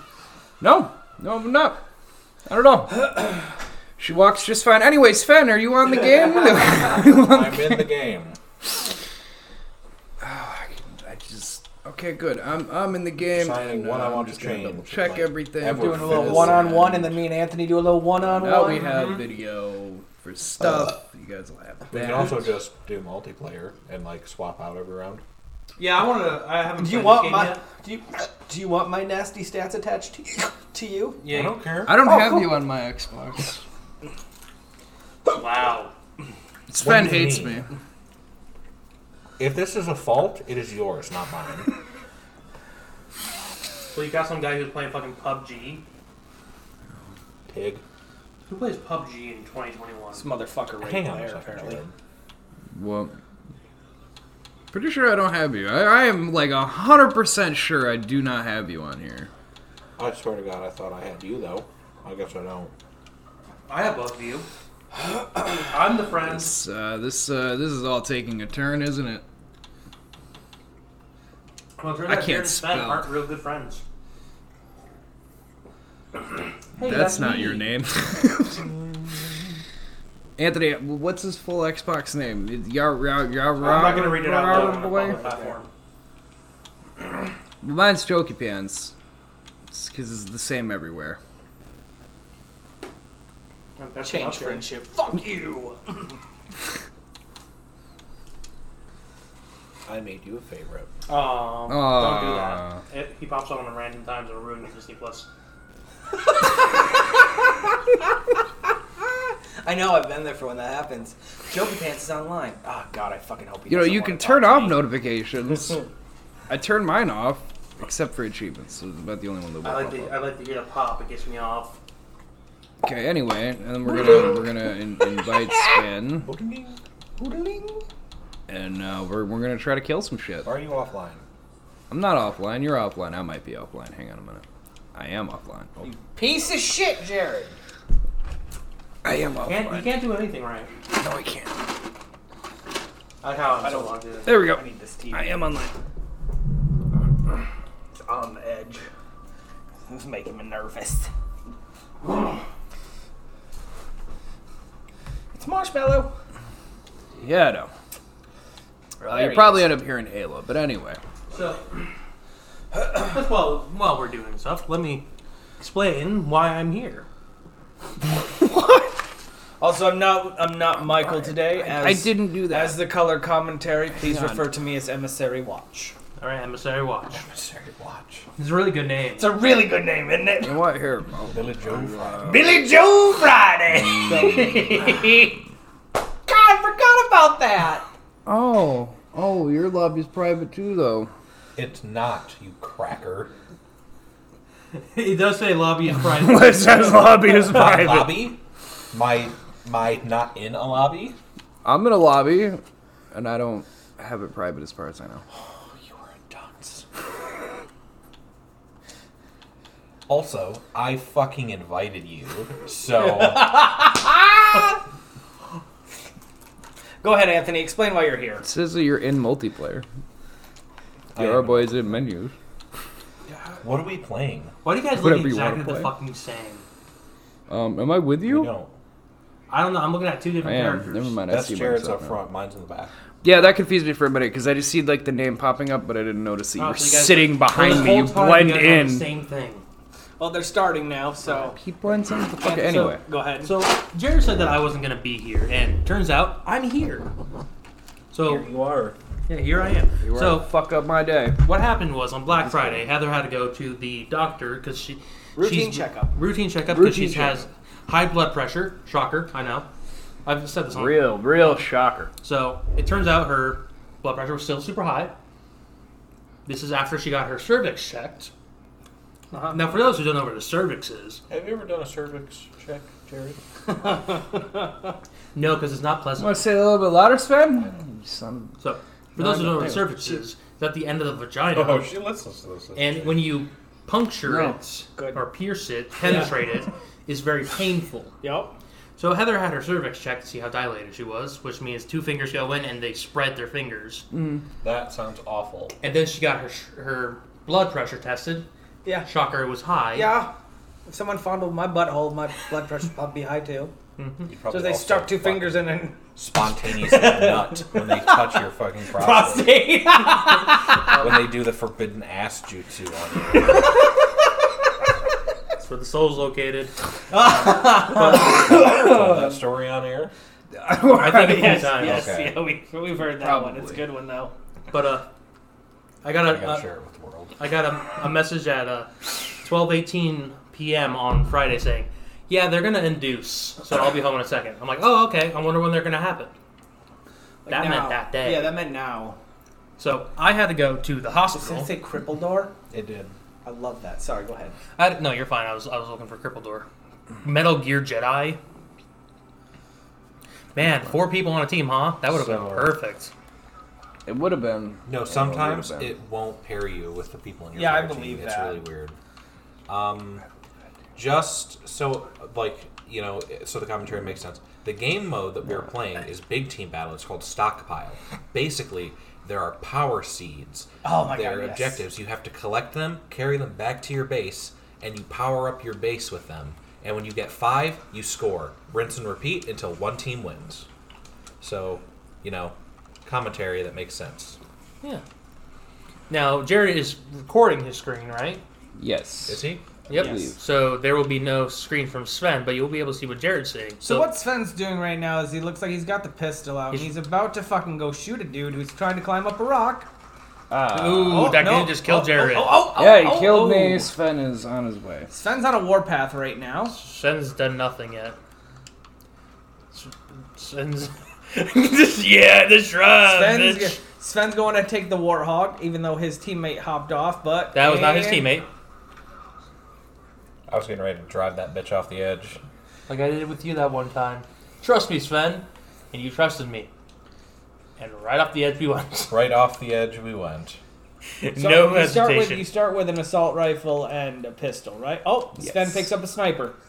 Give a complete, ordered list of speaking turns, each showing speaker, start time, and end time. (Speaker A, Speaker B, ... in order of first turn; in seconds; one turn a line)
Speaker A: 0.6-1.8
Speaker A: 2.5-3.4
Speaker A: 4.0-7.9
Speaker B: 6.7-8.4
Speaker A: 10.2-17.2
Speaker B: 13.3-16.7
Speaker C: 15.7-18.8
Speaker A: 18.3-22.5
Speaker D: 18.4-19.3
Speaker B: 21.9-25.2
Speaker D: 25.8-27.6
Speaker C: 26.8-31.2
Speaker D: 31.2-31.6
Speaker B: 31.3-32.0
Speaker A: 31.9-33.6
Speaker C: 32.1-32.5
Speaker D: 35.3-35.9
Speaker A: 36.7-37.7
Speaker B: 36.8-37.7
Speaker B: 39.4-41.7
Speaker D: 43.9-45.8
Speaker B: 47.5-47.8
Speaker D: 48.5-50.3
Speaker C: 50.1-51.8
Speaker B: 50.8-51.9
Speaker A: 52.7-53.1
Speaker A: 54.7-59.3
Speaker B: 60.0-62.7
Speaker D: 63.7-64.5
Speaker D: 65.7-66.6
Speaker A: 66.2-69.2
Speaker D: 71.8-73.8
Speaker A: 72.0-73.1
Speaker D: 76.8-77.7
Speaker A: 76.8-78.7
Speaker A: 80.4-85.2
Speaker D: 83.6-85.7
Speaker C: 84.1-85.6
Speaker A: 87.6-88.9
Speaker A: 89.7-91.2
Speaker D: 93.8-94.8
Speaker C: 94.0-95.8
Speaker B: 99.8-100.9
Speaker D: 101.1-105.3
Speaker A: 101.7-102.8
Speaker C: 109.6-114.8
Speaker A: 113.7-115.8
Speaker A: 116.5-120.2
Speaker D: 119.6-121.8
Speaker A: 122.8-126.3
Speaker B: 126.2-126.8
Speaker C: 127.2-127.8
Speaker A: 128.5-130.5
Speaker B: 130.4-131.2
Speaker A: 131.9-135.8
Speaker C: 135.8-137.5
Speaker A: 139.0-139.9
Speaker D: 139.4-140.7
Speaker A: 140.9-141.6
Speaker D: 143.2-144.4
Speaker C: 143.5-145.4
Speaker A: 144.2-145.7
Speaker C: 147.9-148.8
Speaker C: 149.9-151.1
Speaker C: 155.3-156.1
Speaker A: 157.2-157.7
Speaker C: 159.0-159.7
Speaker A: 159.0-161.0
Speaker D: 161.3-161.7
Speaker D: 162.9-165.1
Speaker D: 165.6-167.1
Speaker A: 168.5-168.8
Speaker C: 169.6-175.9
Speaker A: 170.8-172.8
Speaker A: 174.0-174.5
Speaker D: 176.2-177.2
Speaker B: 177.1-178.2
Speaker D: 178.4-179.4
Speaker C: 179.2-180.6
Speaker A: 180.4-182.4
Speaker B: 181.3-182.4
Speaker C: 182.2-185.1
Speaker D: 184.0-185.4
Speaker C: 186.3-187.8
Speaker A: 188.2-191.1
Speaker B: 191.6-193.3
Speaker D: 194.7-198.3
Speaker A: 196.0-197.9
Speaker B: 197.5-198.4
Speaker B: 198.9-201.2
Speaker A: 201.6-202.6
Speaker A: 203.1-205.2
Speaker B: 205.7-206.8
Speaker B: 210.1-213.7
Speaker C: 212.9-214.1
Speaker C: 217.0-218.4
Speaker A: 218.4-219.8
Speaker B: 221.1-221.9
Speaker A: 221.2-222.3
Speaker B: 223.6-224.5
Speaker D: 224.6-226.7
Speaker A: 224.9-225.9
Speaker A: 227.5-228.5
Speaker B: 228.2-228.7
Speaker D: 229.5-231.2
Speaker A: 230.4-232.2
Speaker B: 231.3-232.9
Speaker A: 233.2-239.1
Speaker D: 236.6-239.6
Speaker C: 240.2-241.6
Speaker A: 241.3-243.0
Speaker C: 242.4-243.5
Speaker D: 242.7-247.1
Speaker D: 248.1-248.5
Speaker B: 248.2-248.9
Speaker D: 249.3-250.5
Speaker A: 250.0-251.4
Speaker D: 251.4-259.7
Speaker A: 252.3-252.8
Speaker C: 255.3-256.1
Speaker A: 256.6-257.4
Speaker D: 260.2-261.6
Speaker A: 260.7-262.1
Speaker D: 262.2-265.1
Speaker D: 266.4-268.3
Speaker C: 269.3-269.6
Speaker D: 269.5-271.2
Speaker B: 271.3-273.4
Speaker C: 273.8-274.7
Speaker D: 275.3-276.4
Speaker A: 276.2-278.6
Speaker D: 278.6-281.9
Speaker A: 279.2-280.1
Speaker B: 281.5-283.3
Speaker D: 282.8-288.1
Speaker A: 284.2-284.6
Speaker C: 284.9-285.3
Speaker C: 286.0-286.4
Speaker C: 288.2-288.5
Speaker D: 289.0-294.1
Speaker A: 294.1-294.4
Speaker B: 294.6-295.7
Speaker D: 295.8-298.5
Speaker D: 299.1-300.1
Speaker C: 299.9-300.3
Speaker C: 300.9-303.7
Speaker D: 304.0-304.3
Speaker B: 304.2-309.6
Speaker C: 304.5-306.0
Speaker D: 307.1-307.4
Speaker D: 309.0-311.2
Speaker C: 309.7-310.4
Speaker B: 310.9-313.7
Speaker D: 315.6-316.7
Speaker C: 317.1-318.3
Speaker B: 317.6-320.1
Speaker A: 318.3-319.3
Speaker A: 320.6-321.8
Speaker D: 320.9-322.1
Speaker C: 321.0-324.3
Speaker B: 321.8-322.4
Speaker A: 323.0-323.8
Speaker D: 324.7-325.1
Speaker D: 326.0-326.7
Speaker B: 326.1-327.4
Speaker D: 327.4-336.3
Speaker C: 337.4-339.2
Speaker D: 337.5-338.6
Speaker D: 339.8-341.7
Speaker C: 341.3-342.5
Speaker B: 342.7-343.1
Speaker C: 343.4-344.6
Speaker D: 344.8-346.7
Speaker D: 347.2-348.4
Speaker D: 350.5-353.1
Speaker B: 352.1-352.8
Speaker A: 354.1-355.9
Speaker B: 354.9-358.9
Speaker C: 357.5-358.6
Speaker B: 359.7-360.2
Speaker B: 360.9-380.7
Speaker C: 370.8-371.9
Speaker B: 381.4-384.4
Speaker D: 386.1-388.4
Speaker A: 388.8-390.4
Speaker B: 389.3-389.6
Speaker D: 389.9-394.1
Speaker C: 389.9-390.3
Speaker C: 393.8-399.9
Speaker A: 400.5-401.5
Speaker D: 400.7-402.7
Speaker C: 400.7-403.9
Speaker A: 402.7-405.1
Speaker C: 405.1-406.8
Speaker D: 406.7-408.2
Speaker D: 409.7-413.8
Speaker C: 413.0-418.3
Speaker D: 417.5-418.5
Speaker B: 420.5-422.4
Speaker D: 422.9-426.7
Speaker D: 427.8-429.1
Speaker B: 429.1-430.6
Speaker D: 431.2-432.5
Speaker C: 431.4-436.6
Speaker A: 435.4-435.9